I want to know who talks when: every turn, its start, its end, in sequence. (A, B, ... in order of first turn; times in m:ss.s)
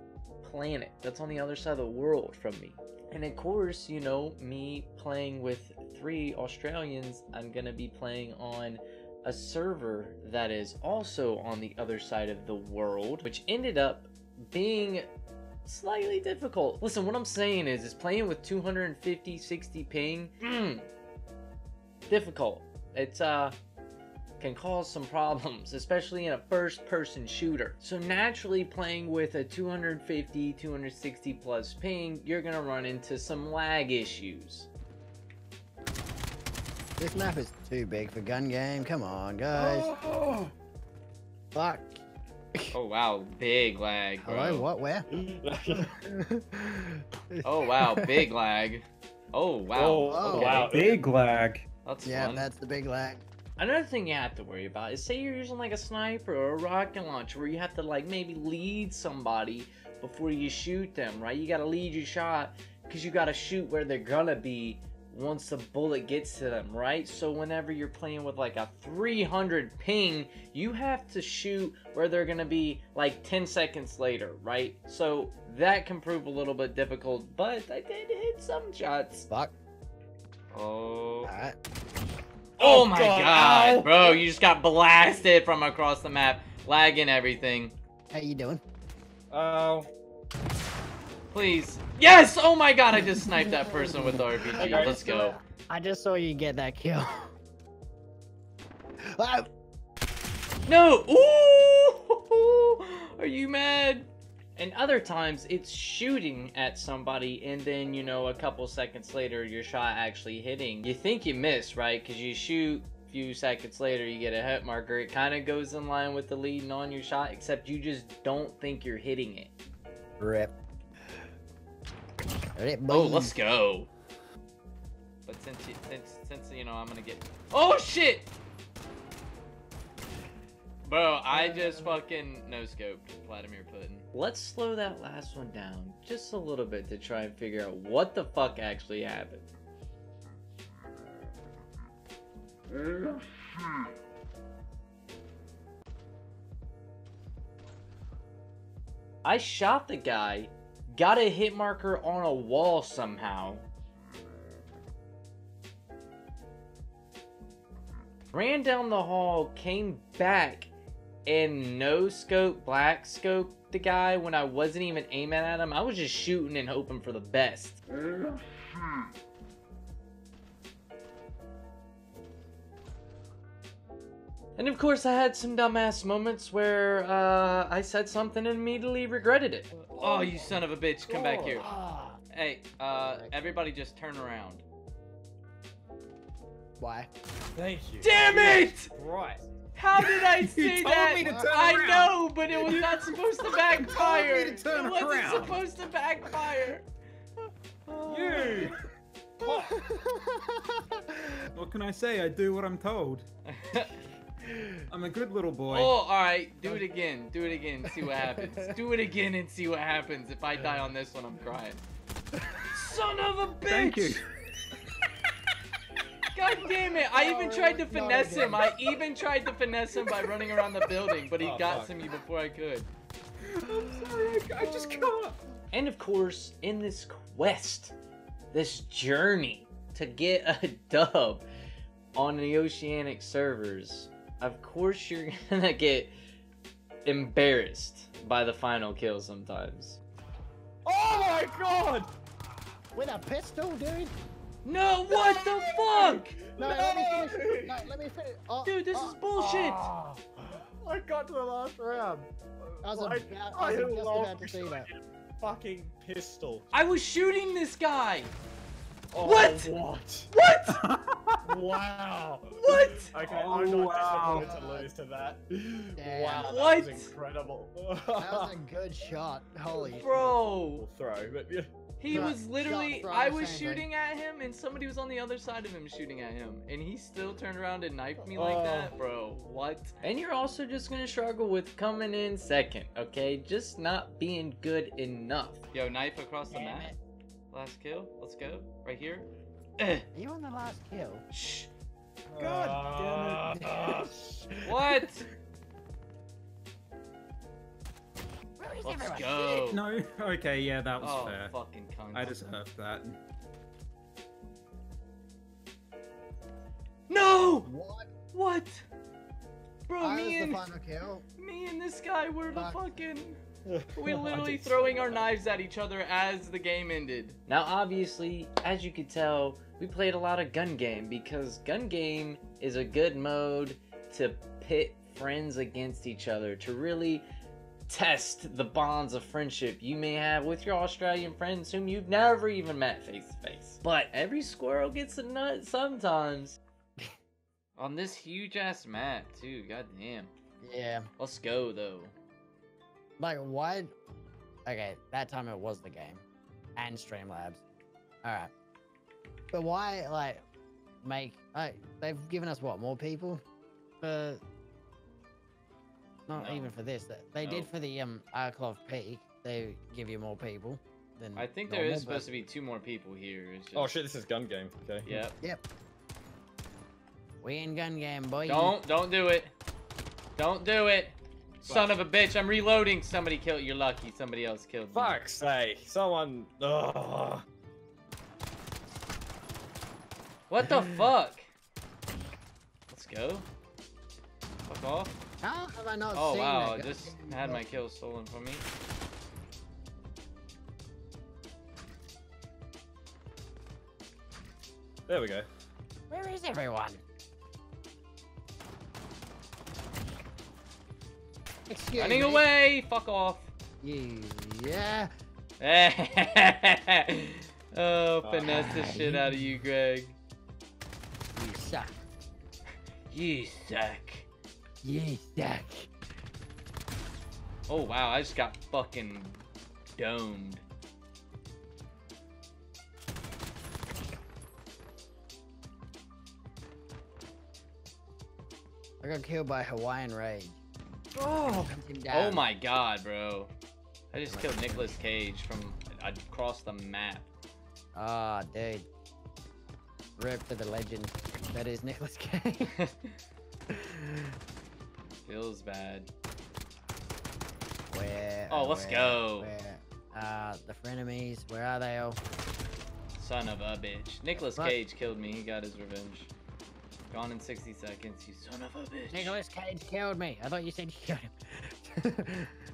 0:00.4-0:15.1 A
0:15.6-0:20.9 A
0:22.1-0:23.5 A
0:24.4-0:34.7 A
0:37.0-0:39.9 B
0:39.5-0:40.5 C
0:41.5-0:42.0 B
0:42.7-0:44.6 A
0:44.2-0:45.1 B
0:45.1-0:45.9 C
0:45.8-0:48.2 B
0:47.4-0:51.0 A
0:49.7-0:50.9 C
0:50.0-0:50.6 B
0:50.5-0:51.6 D
0:51.8-0:52.5 A
0:52.0-0:53.2 B
0:53.6-1:19.3 A
1:20.5-1:21.3 A
1:21.2-1:21.6 B
1:22.6-1:24.2 C
1:22.6-1:27.7 A
1:28.1-1:28.6 B
1:29.3-1:29.9 C
1:31.3-1:35.4 A
1:33.0-1:37.3 B
1:34.6-1:35.1 C
1:39.1-1:39.5 B
1:40.6-1:59.5 A
2:00.2-2:00.5 B
2:02.6-2:03.3 B
2:02.9-2:03.9 A
2:05.2-2:08.3 A
2:10.8-2:19.5 A
2:11.3-2:12.0 B
2:29.2-2:33.6 A
2:38.3-2:40.7 A
2:41.3-2:47.8 A
2:54.6-3:01.7 A
3:01.1-3:01.6 C
3:01.6-3:02.2 B
3:02.3-3:04.6 A
3:03.0-3:03.3 B
3:06.8-3:07.1 B
3:07.6-3:09.4 C
3:07.6-3:08.6 D
3:08.0-3:08.9 A
3:09.7-3:16.8 A
3:10.0-3:13.2 D
3:11.2-3:11.5 B
3:13.8-3:15.6 D
3:17.9-3:18.7 A
3:18.1-3:18.8 D
3:19.4-3:19.8 D
3:19.4-3:21.4 B
3:21.5-3:23.2 D
3:23.5-3:24.0 A
3:24.4-3:24.8 B
3:24.9-3:25.9 D
3:25.7-3:31.8 A
3:27.8-3:28.7 B
3:32.7-3:34.2 A
3:33.7-3:34.2 D
3:36.3-3:42.9 A
3:37.1-3:38.7 B
3:41.4-3:42.0 C
3:43.6-3:45.4 D
3:44.5-3:45.1 B
3:45.7-3:47.9 A
3:48.5-3:51.4 A
3:52.1-3:56.1 A
3:57.0-4:00.0 A
4:00.8-4:02.1 C
4:02.9-4:04.1 B
4:04.6-4:06.4 A
4:05.1-4:07.9 C
4:06.6-4:10.4 B
4:08.6-4:09.9 A
4:10.6-4:16.6 C
4:12.8-4:14.9 B
4:16.7-4:18.3 A
4:19.1-4:20.3 C
4:19.2-4:19.7 A
4:20.3-4:20.8 A
4:20.8-4:21.4 D
4:21.4-4:28.5 C
4:22.6-4:23.1 A
4:23.2-4:24.5 D
4:24.1-4:24.9 B
4:26.0-4:26.6 B
4:26.4-4:27.1 A
4:28.2-4:30.3 B
4:29.8-4:30.8 A
4:30.0-4:32.3 C
4:32.0-4:46.9 A
4:32.1-4:33.8 B
4:38.3-4:38.9 C
4:46.5-4:47.0 B
4:47.5-4:49.3 A
4:49.8-4:50.0 A
4:50.1-4:51.2 B
4:51.3-4:51.7 A
4:52.3-4:54.4 C
4:52.4-4:53.6 D
4:53.6-4:55.0 B
4:54.6-4:55.2 A
4:58.6-4:59.6 B
4:58.8-4:59.8 A
4:59.7-5:01.6 D
5:01.0-5:02.4 A
5:02.1-5:03.2 D
5:07.1-5:07.7 A
5:07.6-5:08.1 B
5:08.3-5:08.8 A
5:09.9-5:10.7 A
5:10.0-5:11.2 B
5:11.4-5:13.4 A
5:12.5-5:13.0 B
5:13.6-5:15.3 C
5:14.0-5:27.2 A
5:27.9-5:36.6 A
5:37.8-5:40.3 A
5:40.6-5:41.0 B
5:41.2-5:42.1 A
5:43.2-5:43.9 B
5:44.6-5:46.2 B
5:46.8-5:47.6 B
5:48.2-5:48.5 B
5:49.5-5:50.4 B
5:51.0-5:53.4 B
5:54.0-5:54.4 B
5:56.3-6:02.4 B
5:56.3-5:56.8 A
5:57.4-5:57.7 A
6:01.4-6:03.9 A
6:03.7-6:05.1 C
6:05.0-6:05.4 A
6:07.4-6:08.8 B
6:08.4-6:09.5 A
6:10.4-6:15.2 A
6:11.6-6:11.9 C
6:14.9-6:17.4 C
6:20.5-6:21.5 A
6:22.9-6:23.5 A
6:24.6-6:25.2 A
6:25.4-6:27.6 B
6:26.1-6:28.6 A
6:35.1-6:35.5 C
6:36.1-6:37.0 B
6:41.7-6:42.5 B
6:42.0-6:43.5 A
6:43.8-6:45.1 B
6:45.6-6:50.2 A
6:48.2-6:48.5 C
6:48.4-6:49.4 B
6:51.4-6:51.9 B
6:53.1-6:54.3 A
6:54.8-6:55.9 B
6:57.7-7:00.6 A
7:09.0-7:10.6 B
7:11.2-7:11.7 C
7:11.5-7:12.4 B
7:12.1-7:13.5 A
7:14.1-7:17.3 A
7:14.3-7:15.1 B
7:17.9-7:18.9 B
7:20.2-7:22.7 B
7:22.8-7:23.1 A
7:23.7-7:24.3 B
7:25.2-7:26.1 A
7:27.9-7:32.2 B
7:28.5-7:29.5 A
7:33.2-7:36.3 A
7:34.4-7:34.8 B
7:37.1-7:39.4 A
7:39.1-7:42.5 B